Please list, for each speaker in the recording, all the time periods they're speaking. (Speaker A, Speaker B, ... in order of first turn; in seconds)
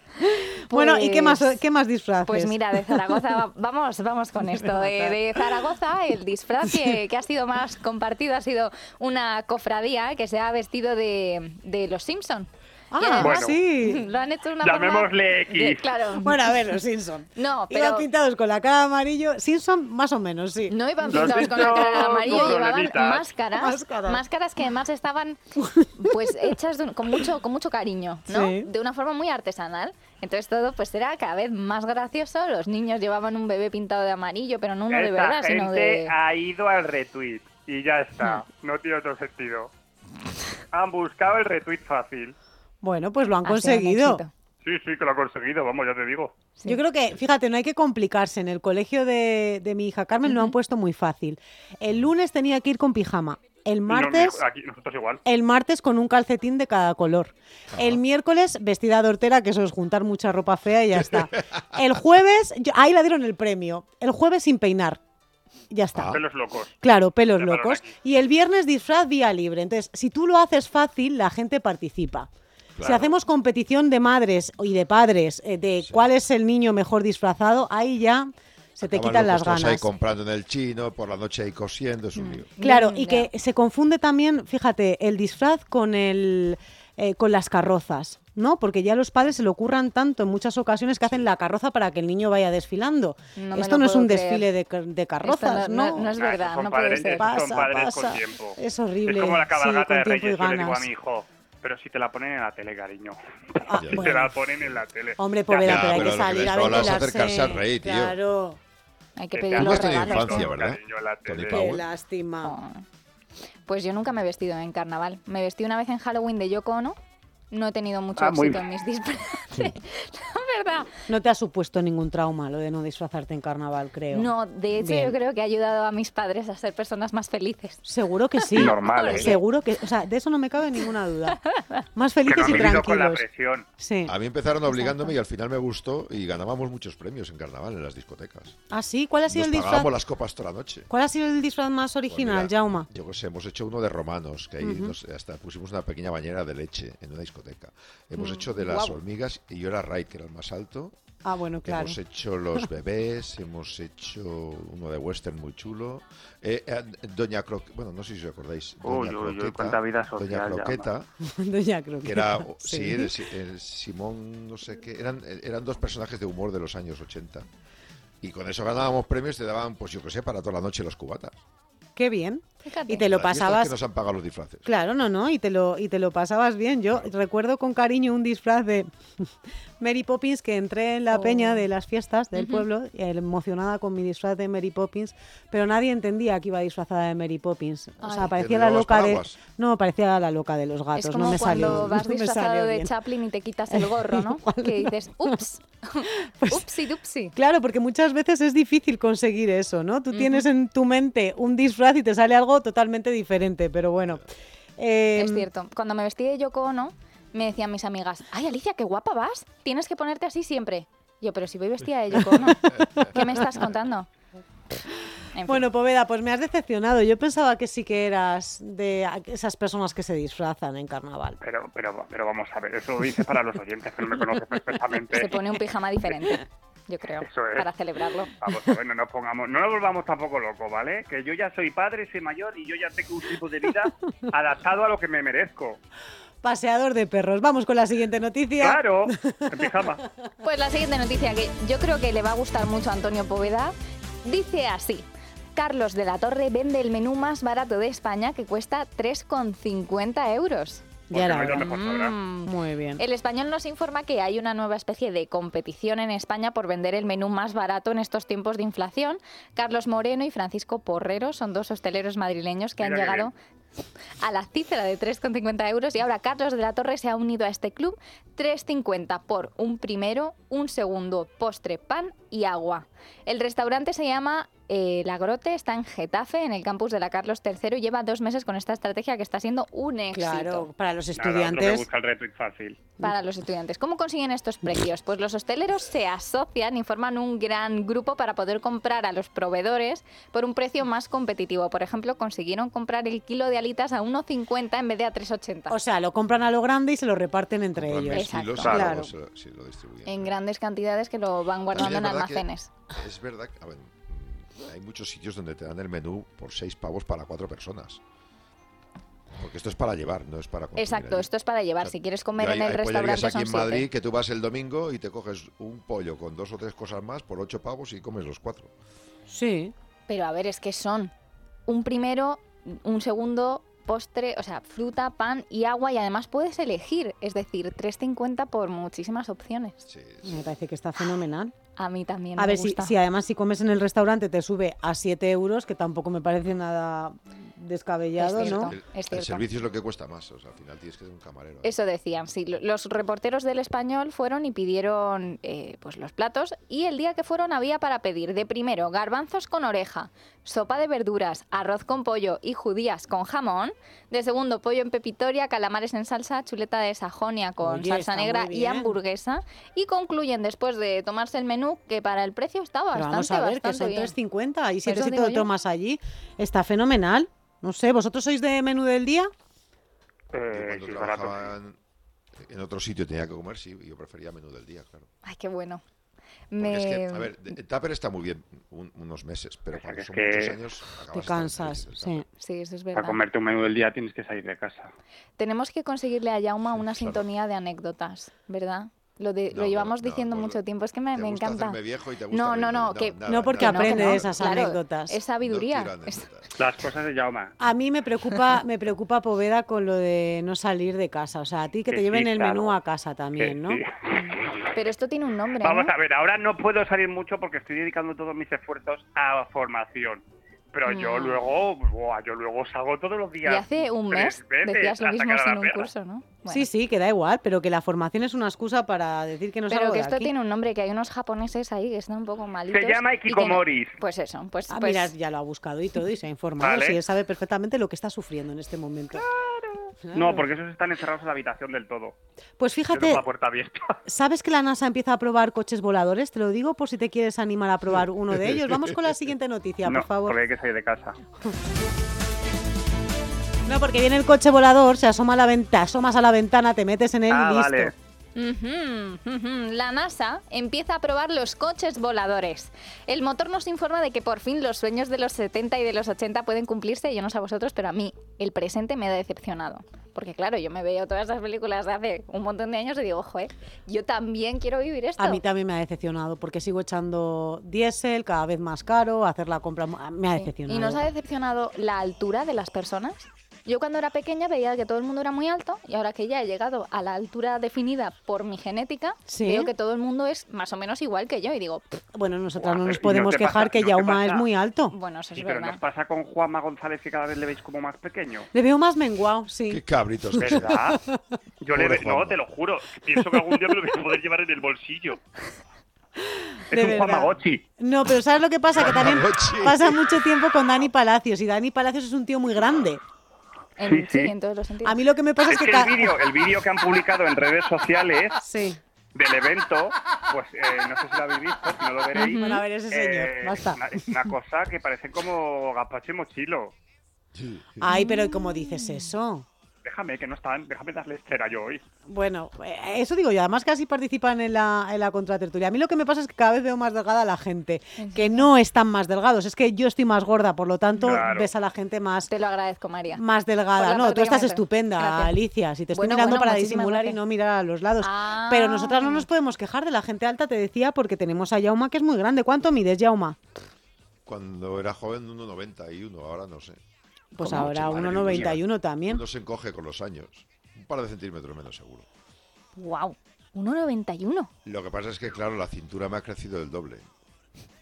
Speaker A: 0.2-3.4, 4.4-5.5, 12.9-14.0, 16.2-22.7, 23.5-24.2, 25.6-26.5, 28.3-28.7, 42.8-44.2, 46.6-54.4, 55.2-65.0, 65.7-66.2, 66.8-72.3, 72.8-79.9, 82.6-96.2, 97.1-100.9, 103.7-104.3, 105.2-108.6, 111.5-112.6, 121.1-125.1, 127.8-131.4, 131.9-133.2, 133.8-134.1, 138.7-139.9, 140.9-142.9, 144.6-144.9, 148.2-149.0, 151.2-152.0, 161.2-163.2, 171.9-173.8, 174.6-192.9, 193.7-195.4, 196.2-196.7, 197.3-205.5, 215.4-221.4, 236.4-239.9, 251.1-251.7, 252.4-253.0, 280.1-281.9, 295.7-299.1, 319.3-319.7, 330.2-331.5, 332.4-338.8, 357.6-358.9, 362.9-369.3, 381.1-382.2, 393.2-395.2, 397.6-403.8, 416.5-420.3, 424.7-429.2, 430.1-430.5, 432.6-433.2, 434.1-440.4, 443.6-447.9, 465.2-471.1, 479.3-479.7, 482.1-484.9, 488.5-491.2, 496.2-503.0, 504.8-506.1, 508.4-508.8, 512.2-514.2, 517.8-519.5, 522.1-532.3, 533.1-543.4, 547.4-549.2
Speaker B: 0.7-1.6, 2.2-16.4, 17.4-18.1, 20.7-25.4, 25.9-36.1, 43.4-44.3, 50.3-50.5, 82.2-83.3, 93.4-94.5, 95.2-97.3, 109.2-110.5, 112.4-112.8, 113.7-117.0, 117.5-120.9, 124.1-127.8, 128.4-129.4, 131.5-131.8, 134.7-135.1, 172.6-173.1, 181.1-181.6, 182.3-182.7, 188.0-188.3, 190.9-197.3, 200.1-200.5, 205.2-214.1, 215.3-215.7, 225.1-228.3, 240.4-250.9, 251.5-263.3, 264.2-280.7, 283.0-295.8, 298.1-298.9, 300.1-302.7, 310.8-313.9, 320.1-321.1, 321.7-329.8, 331.8-332.9, 338.2-339.5, 341.6-364.1, 364.8-365.5, 375.2-375.8, 376.5-377.3, 382.4-383.2, 385.4-391.8, 392.3-396.2, 404.1-405.9, 410.9-411.4, 413.4-416.7, 419.7-425.1, 448.4-465.4, 470.3-481.8, 484.9-485.8, 503.8-505.0, 512.2-512.6, 517.9-519.1, 528.0-528.5, 532.3-533.2, 533.7-535.4, 535.9-537.2, 538.0-539.3, 552.8-554.5
Speaker C: 13.2-13.6, 14.6-15.9, 21.1-23.3, 34.9-39.7, 40.7-42.3, 44.6-46.3, 53.9-55.2, 66.1-66.8, 67.4-67.9, 96.2-106.9, 109.3-111.8, 118.2-118.6, 128.5-129.4, 132.2-133.7, 158.8-160.9, 221.4-225.4, 227.2-227.7, 228.4-235.8, 238.6-240.0, 251.1-252.2, 262.8-263.3, 281.2-282.8, 298.6-298.9, 370.3-371.5, 379.7-380.6, 382.9-384.9, 396.6-397.5, 401.9-402.8, 403.4-404.7, 405.6-415.9, 422.7-424.0, 426.6-427.0, 429.2-432.1, 432.9-434.0, 439.8-441.2, 447.3-447.9, 482.6-484.5, 485.4-488.5, 490.4-491.0, 491.6-495.2, 496.7-497.6, 503.8-504.3, 505.5-508.4, 509.1-516.7, 519.8-521.8, 531.0-531.5
Speaker D: 65.9-66.2, 72.8-73.1, 78.8-82.5, 103.7-104.8, 105.6-108.2, 109.5-111.8, 132.4-132.8, 134.1-138.6, 139.3-140.9, 142.1-150.9, 151.6-161.1, 162.0-167.5, 168.2-171.4, 173.0-174.7, 188.3-189.4, 212.7-213.2, 297.8-300.3, 301.7-308.0, 309.4-311.3, 311.8-318.7, 329.8-330.4, 338.4-341.8, 370.5-371.8, 372.4-375.1, 376.6-382.2, 386.7-387.2, 389.5-390.6, 391.1-394.6, 395.4-396.5, 489.7-490.8, 491.7-492.4, 498.8-500.2, 517.4-517.7, 544.2-546.8, 547.4-552.1, 554.6-557.1